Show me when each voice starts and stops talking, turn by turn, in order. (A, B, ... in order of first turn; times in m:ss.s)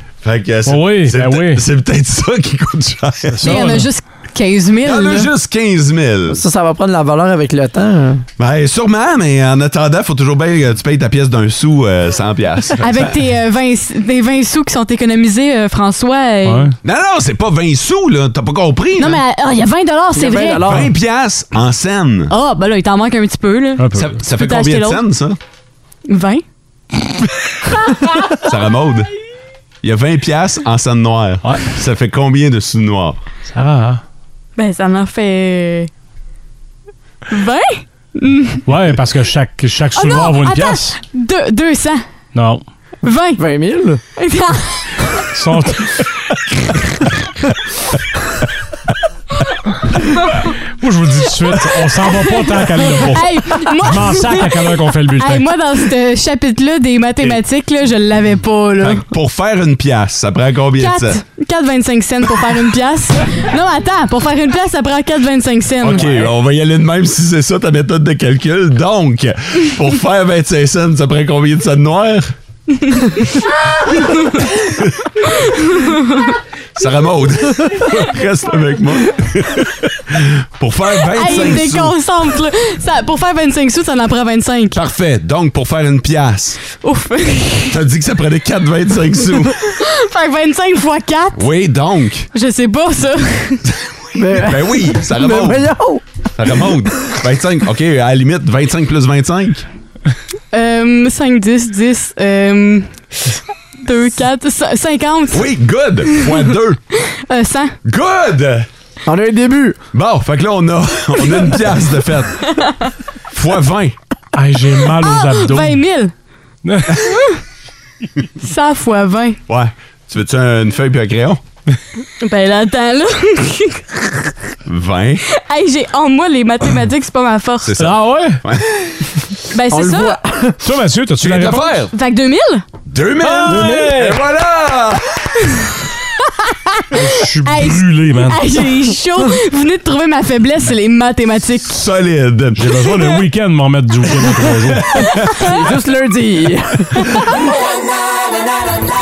0:00.2-0:03.7 A
0:00.7-0:01.6 B
0:03.3-0:03.9 B
0:03.4-0:05.3 C
0:04.8-0:06.4 A
0:06.3-0:08.2 D
0:08.4-0:13.1 A
0:12.8-0:16.7 C
0:16.4-0:16.8 B
0:16.8-0:19.2 A
0:19.0-0:20.7 C
0:20.2-0:20.9 D
0:20.6-0:22.3 A
0:22.3-0:25.0 C
0:23.8-0:24.2 B
0:23.9-0:25.4 A
0:26.1-0:26.4 C
0:28.4-0:29.1 A
0:29.8-0:33.2 A
0:31.4-0:31.7 B
0:33.5-0:34.0 B
0:34.6-0:35.9 C
0:37.3-0:38.6 C
0:38.7-0:41.0 B
0:40.0-0:42.0 C
0:42.3-0:42.6 B
0:43.0-0:43.4 C
0:43.4-0:44.0 D
0:44.1-0:45.1 C
0:45.3-0:46.0 B
0:50.8-0:55.5 B
0:53.0-0:54.5 C
0:55.2-0:59.0 C
0:58.8-1:01.2 A
1:00.8-1:06.1 C
1:05.8-1:12.3 A
1:12.8-1:14.5 C
1:14.6-1:15.3 A
1:15.4-1:16.4 C
1:16.8-1:22.0 A
1:21.1-1:24.8 C
1:24.7-1:26.6 A
1:26.8-1:27.8 C
1:27.6-1:29.6 A
1:29.6-1:31.4 C
1:31.4-1:32.3 A
1:32.3-1:33.6 C
1:33.7-1:35.8 A
1:34.2-1:36.0 D
1:36.4-1:39.7 A
1:40.5-1:45.5 C
1:45.3-1:46.8 A
1:46.1-1:46.5 C
1:47.0-1:47.8 C
1:47.8-1:48.7 A
1:49.1-1:49.8 D
1:49.9-1:52.5 A
1:52.6-1:52.9 C
1:53.3-1:54.0 A
1:54.3-1:55.8 B
1:55.0-1:56.1 C
1:56.6-1:57.0 B
1:57.0-1:57.4 C
1:58.4-1:59.4 C
1:59.5-2:01.4 A
2:02.2-2:04.3 C
2:04.7-2:05.2 A
2:05.3-2:07.7 C
2:07.6-2:09.0 A
2:07.8-2:08.4 B
2:09.5-2:10.2 C
2:09.7-2:10.6 D
2:10.6-2:11.8 B
2:11.2-2:11.9 A
2:11.9-2:12.6 C
2:12.9-2:15.3 A
2:13.3-2:14.1 B
2:13.4-2:14.2 D
2:16.2-2:21.8 C
2:16.9-2:18.4 B
2:21.7-2:22.7 A
2:22.6-2:25.0 B
2:25.4-2:27.2 D